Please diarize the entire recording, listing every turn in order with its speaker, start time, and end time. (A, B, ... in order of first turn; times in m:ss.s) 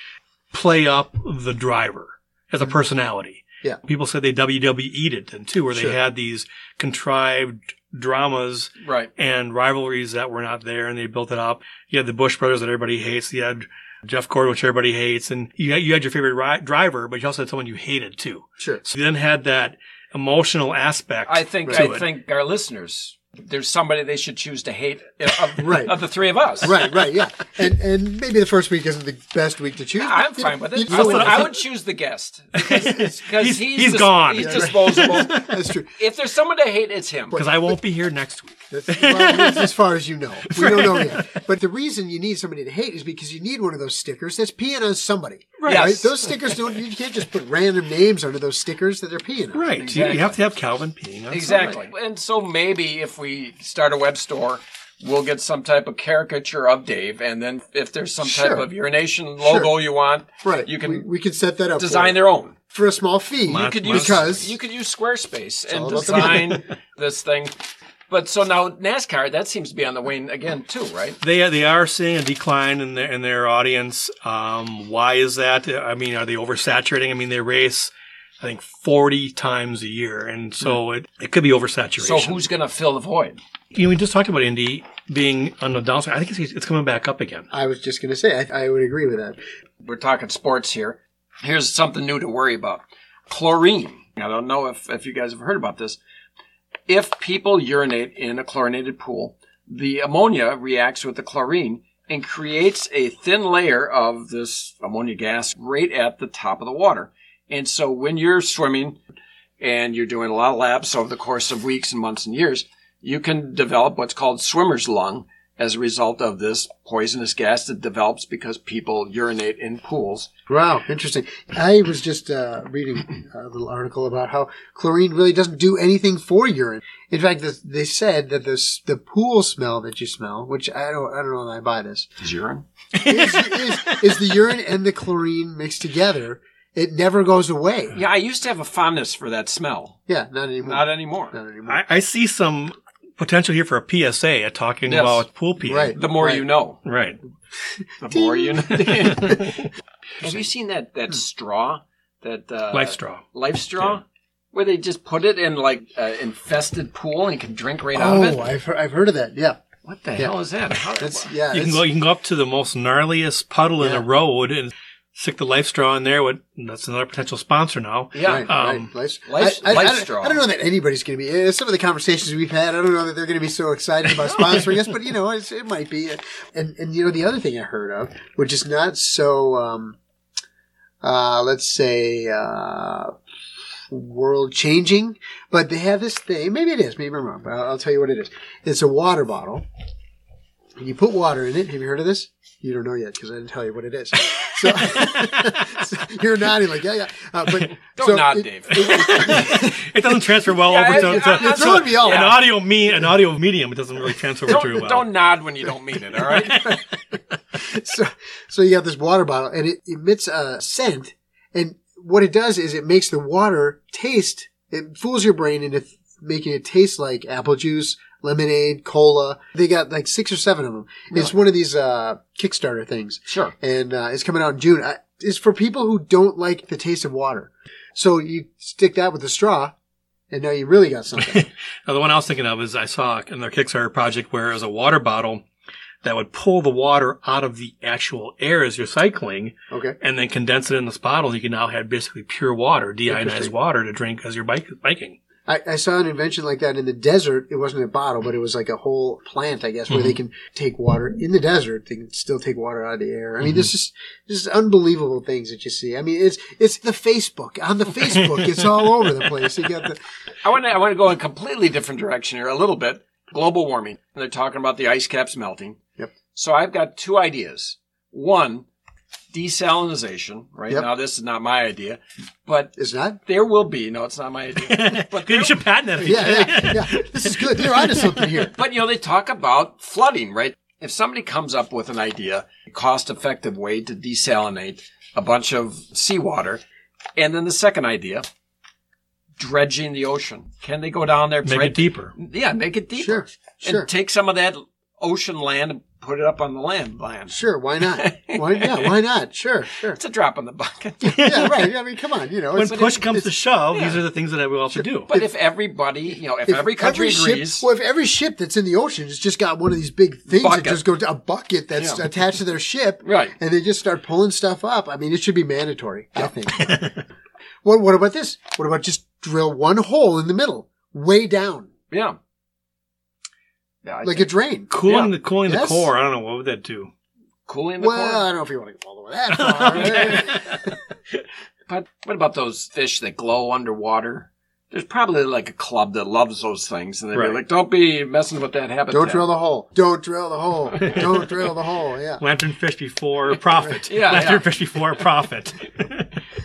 0:00.5-0:22.0 A
0:08.8-0:09.1 B
0:21.3-0:26.8 B
0:25.6-0:25.9 C
0:26.6-0:31.5 C
0:30.0-0:35.4 B
0:30.9-0:31.5 A
0:32.6-0:35.6 A
0:34.4-0:35.9 C
0:36.0-0:37.4 B
0:37.3-0:37.7 C
0:37.3-0:39.7 A
0:38.7-0:49.7 C
0:40.5-0:41.3 A
0:45.6-0:45.9 A
0:45.6-0:46.2 B
0:49.5-0:51.8 A
0:49.8-0:50.4 B
0:51.3-1:01.1 B
0:58.2-0:58.7 C
0:59.4-0:59.7 C
1:00.4-1:02.2 C
1:01.8-1:02.6 B
1:02.7-1:04.5 C
1:03.5-1:04.5 A
1:03.5-1:07.6 B
1:05.7-1:06.6 C
1:06.1-1:06.6 A
1:08.1-1:11.2 B
1:11.2-1:22.4 A
1:22.0-1:23.4 B
1:23.7-1:27.5 A
1:27.5-1:29.4 C
1:29.8-1:36.0 B
1:36.9-1:49.0 B
1:49.6-2:00.3 B
2:00.5-2:12.1 C
2:12.2-2:12.6 B
2:13.0-2:14.0 A
2:13.0-2:18.0 C
2:17.9-2:20.0 B
2:20.1-2:21.8 C
2:20.6-2:21.3 B
2:21.7-2:26.0 A
2:24.8-2:25.2 B
2:25.6-2:26.4 C
2:25.9-2:26.8 B
2:26.8-2:27.2 A
2:28.0-2:29.6 B
2:28.1-2:28.8 C
2:28.8-2:29.6 A
2:30.2-2:38.4 B
2:32.7-2:33.2 A
2:37.9-2:39.6 C
2:39.8-2:41.3 B
2:41.0-2:41.8 C
2:41.5-2:48.9 A
2:43.8-2:44.0 C
2:48.1-2:48.5 B
2:48.2-3:00.0 C
2:49.3-2:50.4 B
2:54.3-2:54.6 B
3:01.0-3:03.1 C
3:03.9-3:09.6 C
3:10.8-3:19.8 C
3:14.4-3:15.8 A
3:18.0-3:19.6 B
3:18.7-3:25.1 A
3:20.6-3:22.4 B
3:20.8-3:22.4 C
3:24.5-3:26.7 B
3:26.3-3:26.8 A
3:27.5-3:49.7 C
3:43.3-3:43.5 B
3:50.3-3:51.5 C
3:51.2-3:55.4 A
3:56.0-4:05.2 A
3:59.7-4:00.0 C
4:03.1-4:03.5 C
4:05.5-4:20.0 C
4:09.9-4:10.2 A
4:18.2-4:18.7 A
4:20.4-4:25.8 B
4:26.3-4:28.7 B
4:29.3-4:32.7 B
4:32.8-4:33.2 C
4:33.2-4:35.6 B
4:34.7-4:38.4 A
4:36.0-4:38.5 C
4:38.5-4:46.6 B
4:47.2-4:48.2 B
4:49.4-4:57.4 B
4:51.4-4:52.1 A
4:53.0-4:53.9 C
4:57.3-5:00.0 C
4:57.9-4:58.9 B
4:59.9-5:01.2 B
5:01.0-5:03.3 C
5:01.1-5:01.7 A
5:02.5-5:05.1 A
5:04.7-5:05.3 C
5:05.1-5:07.7 B
5:06.4-5:16.8 C
5:10.3-5:10.8 B
5:11.8-5:12.0 B
5:13.0-5:13.3 B
5:16.6-5:17.0 A
5:17.6-5:21.7 C
5:21.9-5:22.2 B
5:23.8-5:24.3 B
5:24.0-5:24.8 C
5:24.7-5:26.9 A
5:24.8-5:25.1 B
5:25.4-5:25.9 C
5:27.5-5:28.2 B
5:27.8-5:30.7 C
5:29.3-5:30.6 A
5:29.8-5:30.2 B
5:31.7-5:39.3 B
5:37.1-5:37.4 A
5:38.9-5:42.2 C
5:40.8-5:41.1 A
5:42.2-5:46.1 A
5:43.9-5:44.4 B